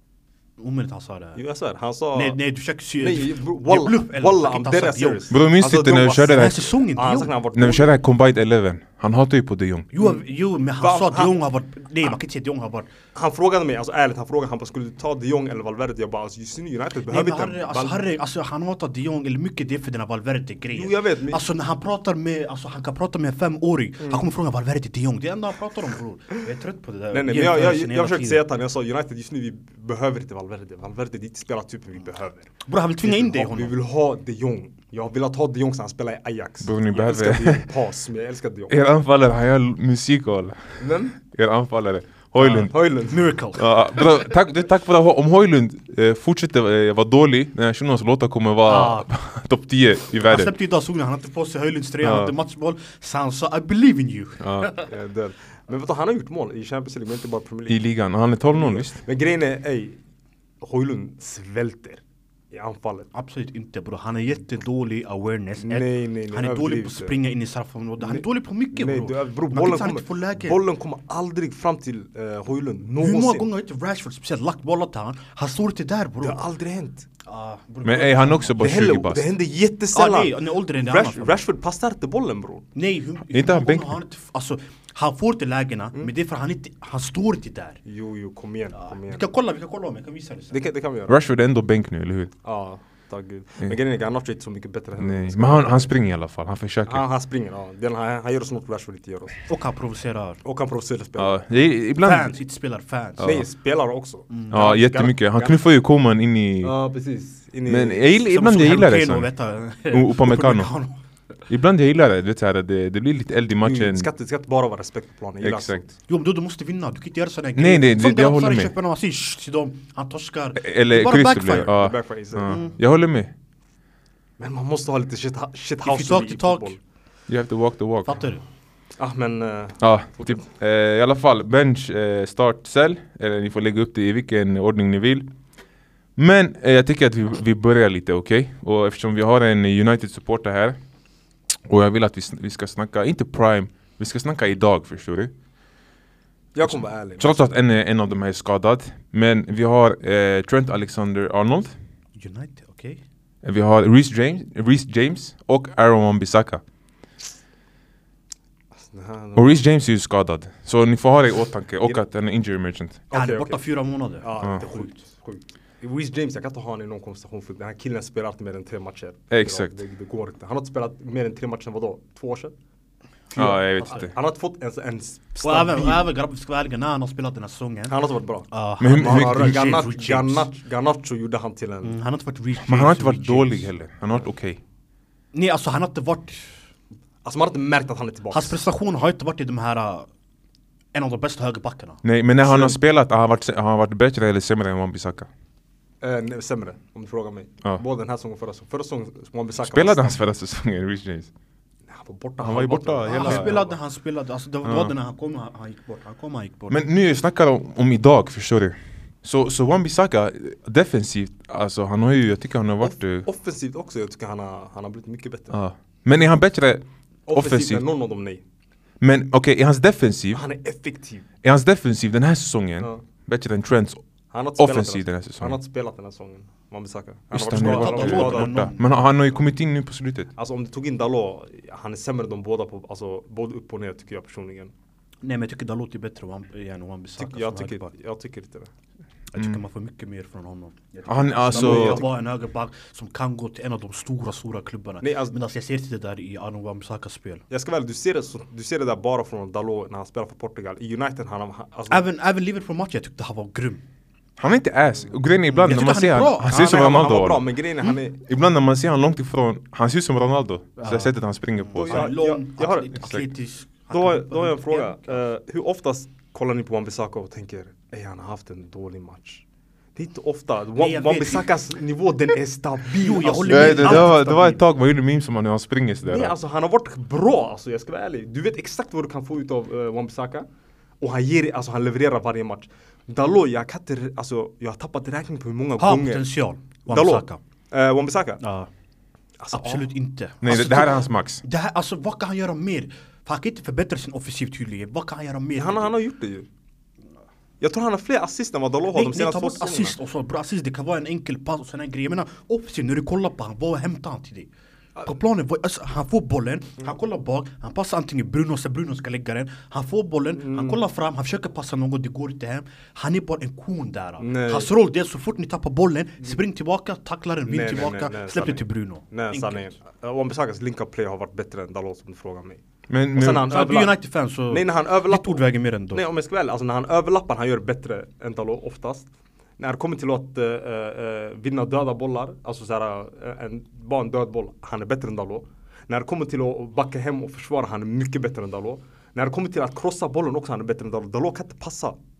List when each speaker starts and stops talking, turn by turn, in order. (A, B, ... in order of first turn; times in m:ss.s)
0:00.6-0:01.4 A
0:01.4-0:02.4 B
0:02.1-0:05.2 A
0:03.0-0:07.9 B
0:05.3-0:06.6 C
0:06.3-0:07.3 A
0:07.5-0:09.9 C
0:09.9-0:12.9 A
0:10.8-0:11.4 B
0:13.1-0:18.0 B
0:17.1-0:28.4 A
0:20.7-0:21.4 B
0:27.1-0:38.8 B
0:32.6-0:33.7 A
0:36.6-0:37.6 C
0:38.7-0:42.7 C
0:40.8-0:41.2 B
0:42.4-0:43.7 A
0:42.5-0:43.3 B
0:43.5-0:50.5 C
0:48.6-0:49.1 A
0:50.2-0:54.9 A
0:52.0-0:52.3 C
0:54.4-0:54.7 C
0:54.9-0:57.8 B
0:57.7-0:59.0 C
0:58.5-1:00.0 B
1:00.6-1:03.1 B
1:03.1-1:10.6 A
1:05.6-1:07.2 B
1:08.0-1:13.5 B
1:13.0-1:16.4 A
1:16.2-1:17.1 B
1:17.2-1:18.6 A
1:17.8-1:19.2 C
1:18.6-1:22.7 B
1:19.9-1:21.4 A
1:22.7-1:27.8 A
1:23.3-1:24.0 C
1:27.8-1:29.2 B
1:28.7-1:30.6 A
1:30.5-1:31.2 B
1:31.1-1:32.3 C
1:32.4-1:35.9 B
1:35.0-1:37.0 C
1:36.9-1:39.4 B
1:39.5-1:40.4 A
1:40.4-1:41.4 B
1:41.2-1:42.3 C
1:42.0-1:43.3 A
1:43.2-1:43.4 C
1:43.2-1:45.6 B
1:44.5-1:46.7 C
1:46.6-1:48.1 B
1:47.6-1:49.3 C
1:48.2-1:50.9 A
1:49.9-1:50.7 C
1:51.5-1:54.1 C
1:53.6-1:55.9 B
1:55.4-1:55.8 C
1:56.1-2:01.8 A
1:57.6-1:58.7 C
2:00.6-2:03.3 C
2:01.6-2:02.7 B
2:02.5-2:02.8 A
2:04.4-2:06.8 B
2:05.8-2:06.8 A
2:07.3-2:08.2 C
2:08.0-2:08.4 A
2:09.0-2:10.4 B
2:09.8-2:15.3 C
2:16.2-2:20.8 C
2:21.6-2:25.3 C
2:26.5-2:27.6 B
2:26.6-2:31.7 C
2:32.2-2:33.0 A
2:33.4-2:36.6 C
2:38.8-2:39.6 B
2:39.3-2:43.0 C
2:43.1-2:43.6 B
2:43.1-2:45.0 A
2:44.2-2:52.5 B
2:49.3-2:49.7 C
2:53.3-2:56.1 B
2:53.4-2:54.1 C
2:55.4-2:58.0 A
2:57.9-3:02.0 B
2:58.5-3:00.5 A
2:58.8-2:59.6 C
3:01.8-3:03.7 A
3:02.6-3:04.6 C
3:05.3-3:06.5 A
3:07.2-3:08.6 B
3:08.3-3:10.1 A
3:10.9-3:12.0 A
3:12.0-3:15.3 C
3:12.4-3:12.8 B
3:16.0-3:20.2 B
3:19.6-3:21.3 C
3:21.9-3:23.8 B
3:22.4-3:23.6 C
3:23.0-3:26.8 A
3:24.6-3:24.9 C
3:26.7-3:33.2 C
3:32.8-3:35.6 B
3:35.5-3:37.8 C
3:37.3-3:38.4 B
3:39.0-3:40.4 C
3:40.3-3:41.2 B
3:41.4-3:44.0 C
3:44.3-3:48.6 B
3:44.6-3:45.6 C
3:47.3-3:50.3 C
3:47.5-3:48.8 A
3:50.4-3:54.7 B
3:55.2-3:57.9 A
3:57.2-3:58.7 B
3:59.3-4:07.4 A
4:01.1-4:02.0 C
4:01.4-4:02.1 B
4:05.0-4:05.3 B
4:07.5-4:12.0 B
4:11.9-4:13.8 A
4:14.4-4:17.5 C
4:15.6-4:16.6 A
4:16.4-4:18.2 B
4:18.2-4:22.1 C
4:20.8-4:25.1 A
4:21.7-4:23.0 B
4:23.9-4:29.4 B
4:29.9-4:34.2 B
4:30.8-4:31.4 A
4:33.0-4:34.6 A
4:33.5-4:36.3 C
4:36.0-4:40.5 B
4:41.0-4:46.3 B
4:45.8-4:47.4 A
4:46.9-4:48.4 B
4:48.4-4:48.7 A
4:49.4-4:49.9 B
4:49.5-4:55.9 A
4:50.4-4:51.4 C
4:55.6-4:56.5 B
4:57.6-5:00.0 B
4:58.9-5:04.5 A
5:05.0-5:19.7 A
5:10.4-5:10.8 B
5:14.2-5:14.7 B
5:17.5-5:22.6 B
5:22.9-5:23.5 C
5:23.1-5:29.1 B
5:23.4-5:26.0 A
5:29.6-5:42.0 B